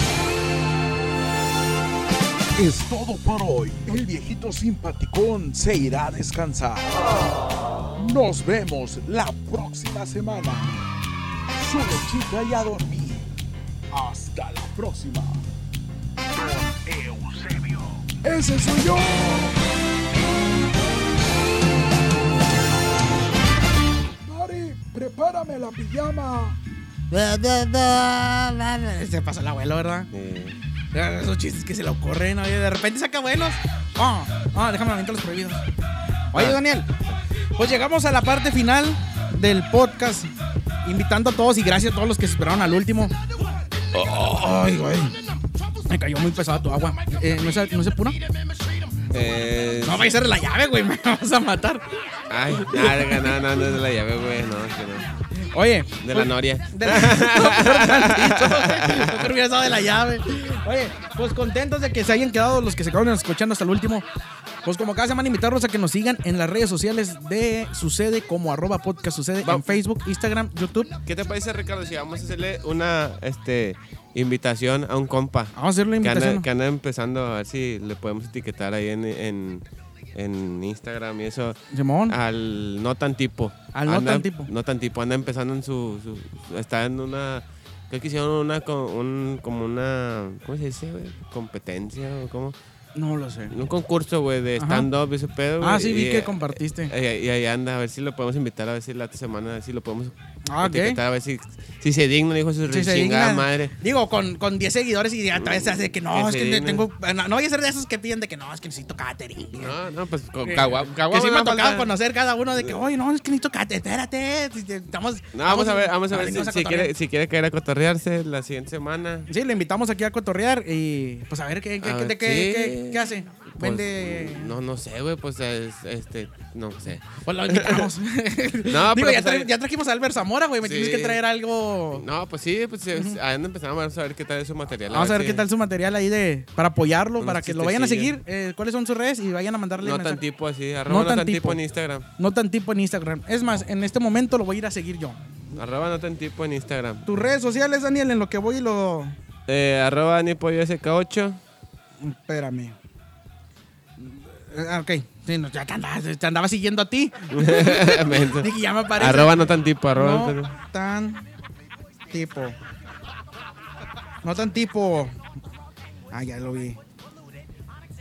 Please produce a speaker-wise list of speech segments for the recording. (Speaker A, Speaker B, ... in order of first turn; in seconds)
Speaker A: 2.6-7.0, 8.0-10.8, 11.5-13.3, 13.9-15.4, 16.3-19.6, 24.2-26.6
Speaker B: 27.1-30.1, 30.9-35.6, 36.3-36.9, 37.6-40.3, 40.9-43.1, 43.9-45.2, 45.9-48.2, 49.8-51.9, 52.5-53.3, 55.5-64.1, 64.7-70.9, 75.5-76.5, 81.7-82.2, 83.7-84.5, 93.0-93.5, 94.6-94.9, 95.6-96.9, 100.5-101.0, 102.7-109.8, 110.4-116.9, 119.3-124.5, 127.2-132.0, 134.9-140.2, 140.9-141.6, 142.2-145.6, 147.1-149.2, 152.0-152.8, 154.0-161.2, 162.1-162.6, 164.2-165.2, 166.1-166.8
Speaker C: 30.1-30.6, 36.4-36.6, 49.1-50.1, 52.3-55.1, 56.0-59.3, 69.4-69.8, 71.0-79.6, 80.2-92.5, 93.5-103.7, 105.4-106.9, 109.5-111.9, 115.3-119.3, 121.8-127.9, 128.7-129.5, 130.6-131.2, 131.9-135.4, 137.2-138.1, 139.8-142.1, 145.6-147.1, 149.5-151.4, 157.3-160.5